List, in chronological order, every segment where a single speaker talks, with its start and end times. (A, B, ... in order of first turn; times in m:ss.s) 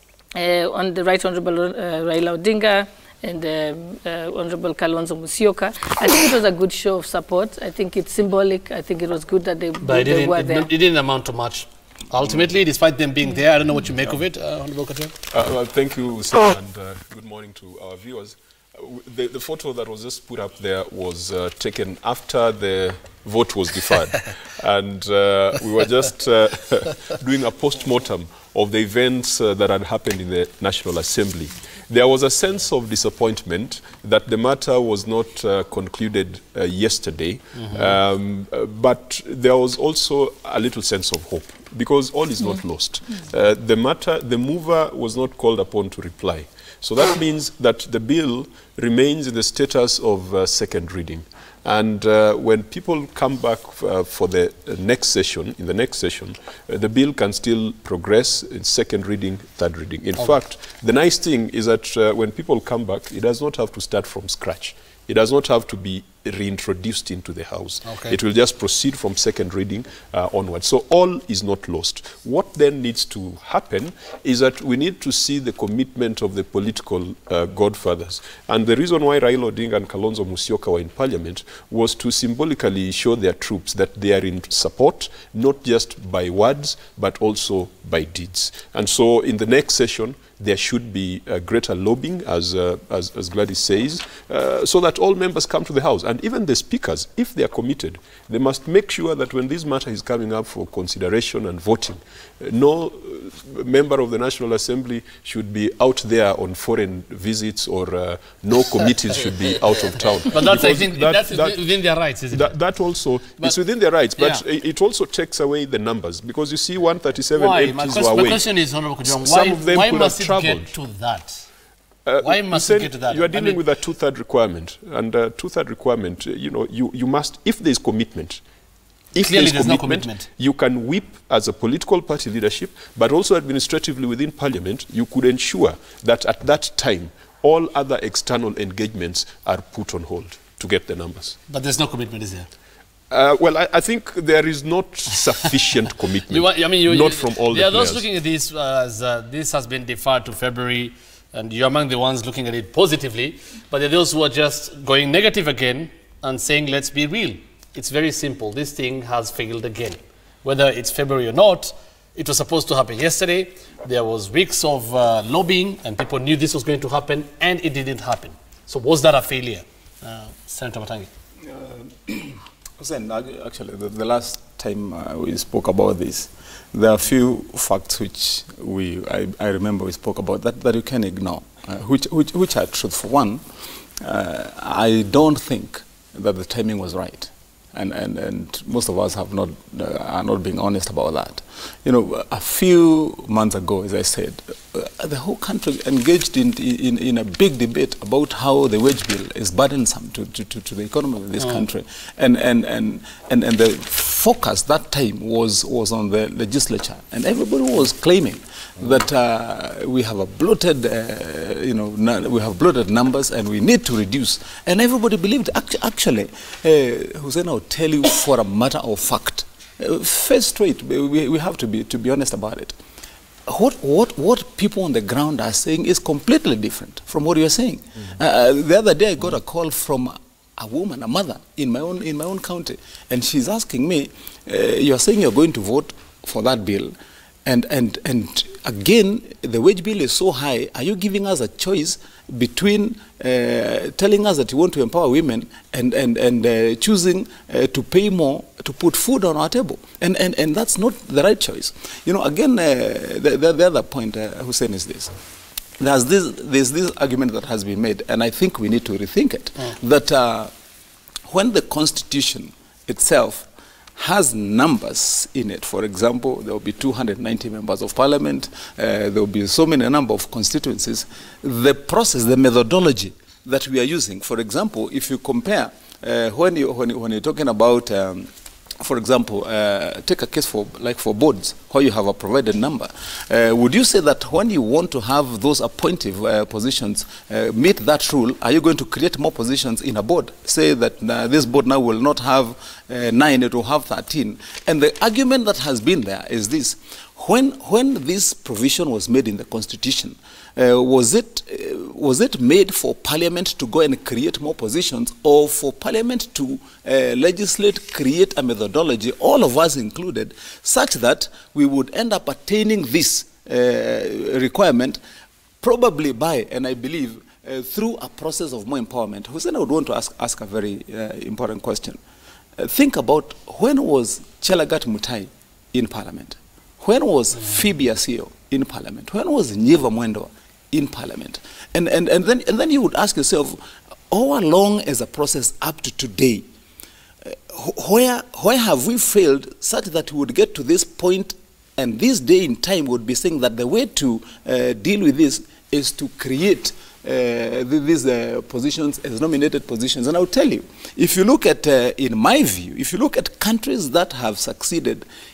0:00.3-0:10.7 A
0:09.8-0:15.1 B
0:15.3-1:51.6 C
0:37.6-0:37.9 B
1:07.8-1:08.2 B
1:50.3-1:52.6 B
1:52.3-1:58.5 C
1:54.2-1:54.4 B
1:57.3-2:01.4 B
1:59.0-2:00.7 C
2:02.0-2:08.4 C
2:02.2-2:03.6 B
2:09.1-2:21.4 C
2:09.2-2:10.3 B
2:21.5-2:22.5 B
2:23.1-2:28.0 C
2:26.3-2:51.1 B
2:51.4-3:03.4 D
3:04.0-3:42.8 D
3:21.4-3:21.6 B
3:43.5-3:56.9 D
3:57.4-4:15.1 D
4:15.8-4:20.5 D
4:21.3-4:38.3 D
4:38.8-5:15.0 D
5:15.6-5:22.0 D
5:22.6-5:33.6 D
5:34.1-5:36.4 D
5:37.2-5:55.0 D